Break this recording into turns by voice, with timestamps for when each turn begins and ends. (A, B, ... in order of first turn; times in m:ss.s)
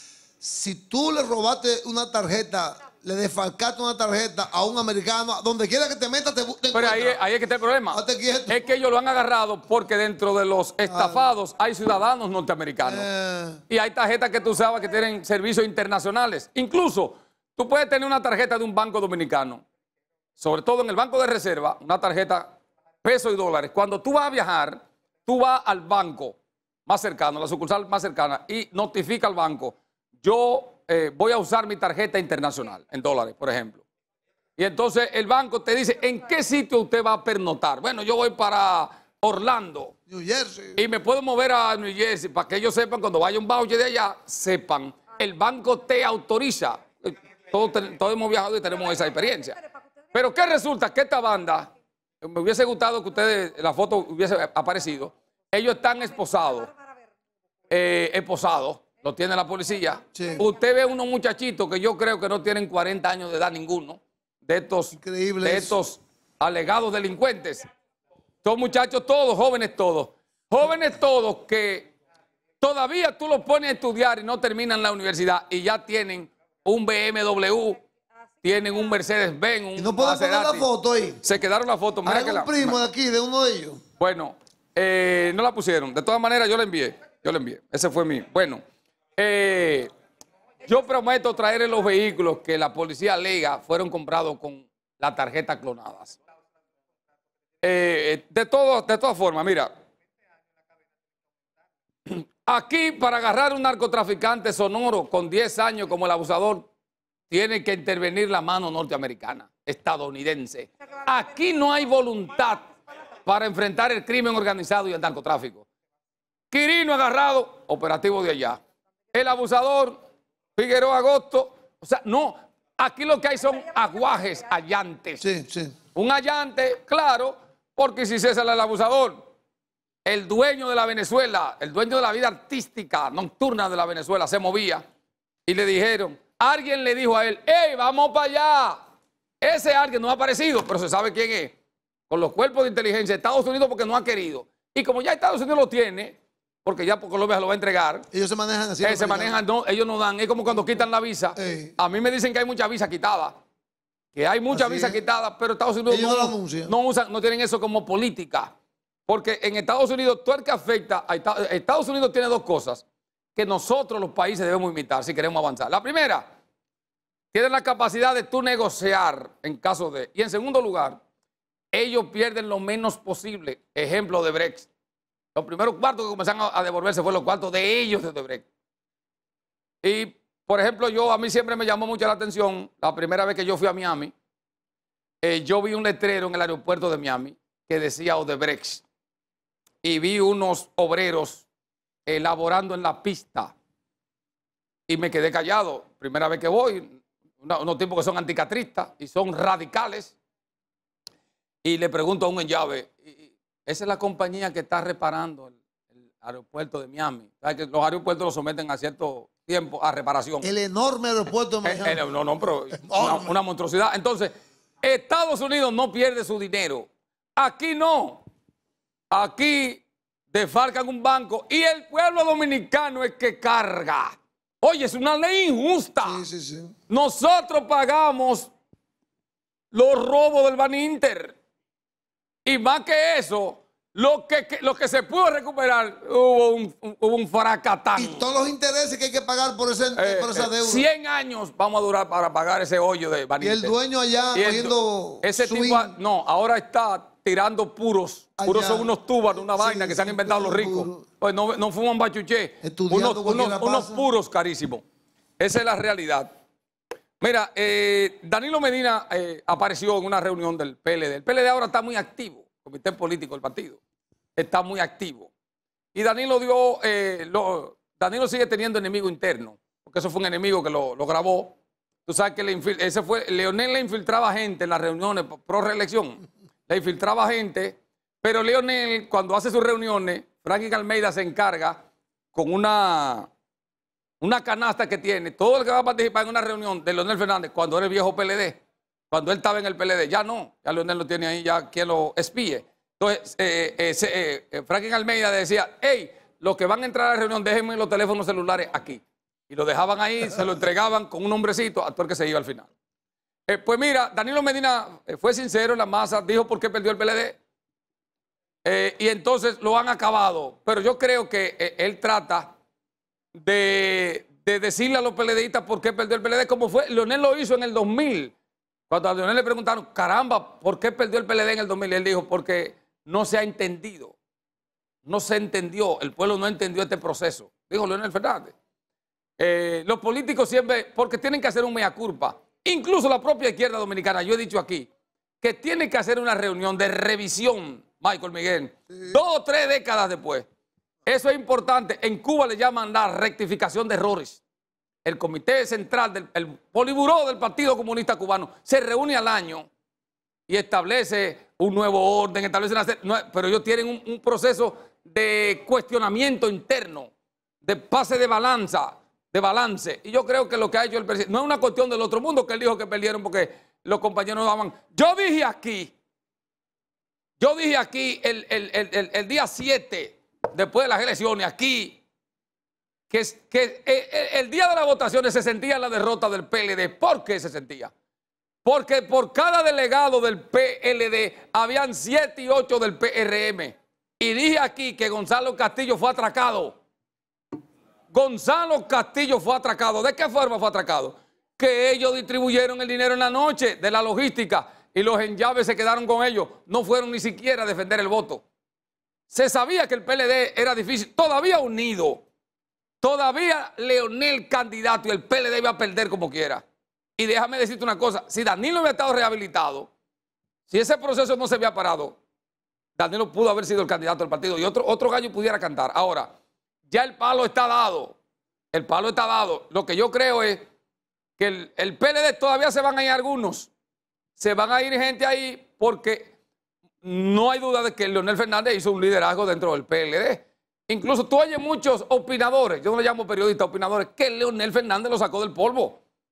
0:00.4-0:07.2 A
0:06.7-0:13.1 B
0:07.9-0:08.6 A
0:10.9-0:11.3 A
0:12.8-0:13.6 A
0:13.7-0:19.6 B
0:20.4-0:22.5 B
0:23.0-0:26.3 B
0:26.9-0:33.8 B
0:34.6-0:39.9 B
0:40.1-0:40.8 A
0:40.8-0:49.6 B
0:50.1-0:51.7 B
0:52.2-0:56.7 B
0:57.7-1:07.6 B
1:00.1-1:00.4 A
1:04.9-1:05.8 A
1:08.4-1:11.9 B
1:12.6-1:17.8 B
1:18.4-1:20.6 B
1:19.8-1:21.2 A
1:21.2-1:22.8 B
1:22.0-1:23.8 A
1:24.0-1:28.6 B
1:29.2-1:29.9 B
1:30.6-1:36.2 B
1:37.6-1:39.7 B
1:42.1-1:46.7 B
1:47.3-1:52.7 B
1:53.2-1:55.6 B
1:56.5-1:58.6 B
1:59.1-2:00.0 B
2:00.6-2:05.2 B
2:05.2-2:05.7 A
2:05.9-2:09.2 B
2:10.0-2:14.8 B
2:15.5-2:18.8 B
2:19.4-2:21.5 B
2:22.1-2:28.0 B
2:28.1-2:29.4 A
2:28.8-2:33.4 B
2:31.4-2:31.7 A
2:34.1-2:38.5 B
2:34.5-2:35.0 A
2:35.9-2:36.7 A
2:39.1-2:42.8 B
2:43.3-2:46.2 B
2:47.3-2:51.0 B
2:51.7-2:54.7 B
2:55.3-2:58.4 B
2:59.8-3:04.1 B
3:05.2-3:08.8 B
3:09.8-3:11.4 B
3:12.1-3:13.5 B
3:14.9-3:20.1 B
3:21.6-3:25.6 B
3:26.2-3:30.5 B
3:30.4-3:32.0 A
3:31.6-3:38.2 B
3:32.8-3:33.3 A
3:39.1-3:46.2 B
3:46.0-3:46.7 A
3:46.9-3:48.5 B
3:49.7-3:51.4 B
3:52.4-3:58.2 B
3:58.0-4:00.9 A
4:00.0-4:03.7 B
4:03.4-4:05.9 A
4:04.3-4:14.8 B
4:08.4-4:11.0 A
4:12.6-4:14.0 A
4:15.4-4:16.3 B
4:17.2-4:23.8 B
4:24.4-4:25.3 B
4:25.9-4:31.5 B
4:32.0-4:41.8 B
4:42.3-4:43.3 B
4:44.2-4:48.6 B
4:49.1-5:02.7 B
5:03.5-5:07.4 B
5:08.6-5:12.5 B
5:13.4-5:18.3 B
5:18.9-5:24.2 B
5:25.0-5:28.5 B
5:29.4-5:34.9 B
5:35.4-5:40.4 B
5:41.1-5:44.4 B
5:45.0-5:49.7 B
5:50.5-5:57.1 B
5:57.6-6:05.9 B
6:07.4-6:12.0 B
6:13.1-6:17.9 B
6:18.6-6:26.8 B
6:28.1-6:38.4 B
6:39.3-6:42.2 B
6:43.0-6:46.6 B
6:47.2-6:49.9 B
6:50.7-6:52.2 B
6:53.0-6:56.3 B
6:56.9-6:58.1 B
6:58.7-7:00.6 B
7:01.4-7:03.7 B
7:04.4-7:06.3 B
7:07.0-7:16.0 B